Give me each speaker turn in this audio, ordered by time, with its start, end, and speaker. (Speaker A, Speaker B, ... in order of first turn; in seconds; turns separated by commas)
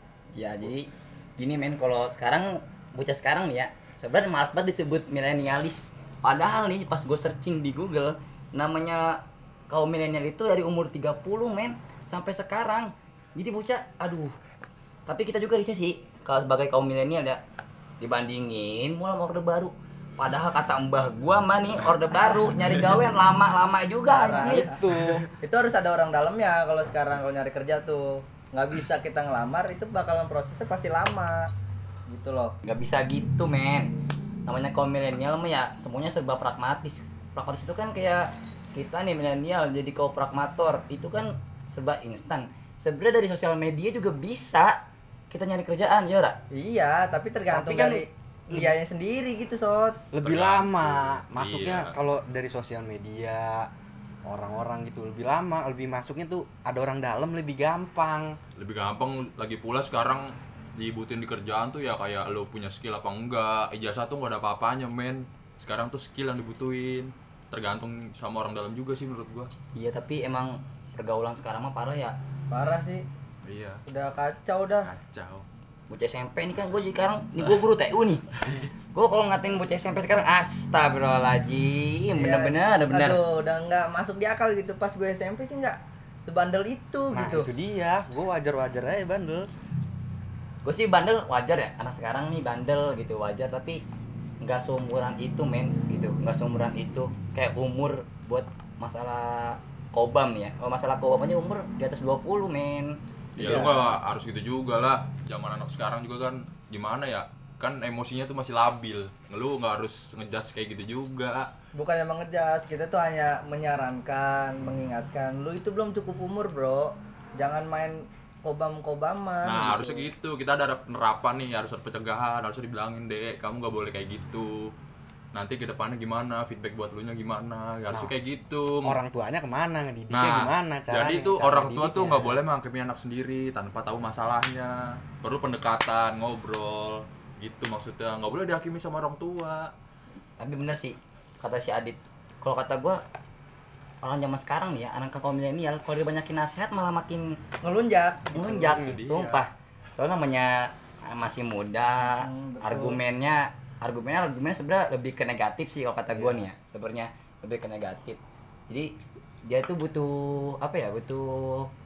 Speaker A: 0.3-14.3, Speaker A: 15.1-17.4, Speaker A: 18.0-24.7, Speaker B: 24.1-31.5, Speaker C: 24.3-25.3, Speaker B: 32.1-32.5, Speaker A: 32.6-33.9, Speaker A: 34.5-44.8, Speaker A: 45.3-46.4, Speaker B: 46.5-50.0, Speaker C: 47.5-48.8, Speaker C: 50.1-53.7, Speaker D: 50.2-52.0, Speaker C: 54.2-58.4, Speaker D: 58.6-69.5, Speaker A: 69.7-72.2, Speaker B: 72.5-73.0, Speaker D: 73.4-73.8, Speaker B: 73.8-74.9, Speaker D: 74.8-75.5, Speaker A: 75.9-78.2, Speaker A: 78.9-83.2, Speaker B: 82.2-87.5, Speaker C: 87.1-89.5, Speaker A: 90.6-93.8, Speaker A: 94.4-103.7, Speaker D: 103.3-111.5, Speaker C: 103.4-103.8, Speaker B: 111.7-120.1, Speaker D: 119.4-124.7, Speaker D: 125.3-129.0, Speaker C: 127.9-128.1, Speaker C: 128.8-132.4, Speaker D: 130.1-139.7, Speaker A: 140.4-143.0, Speaker A: 144.0-147.4, Speaker B: 147.6-148.9, Speaker A: 148.3-158.9, Speaker D: 148.5-149.4, Speaker B: 152.1-153.0, Speaker C: 156.2-156.5, Speaker A: 159.4-161.7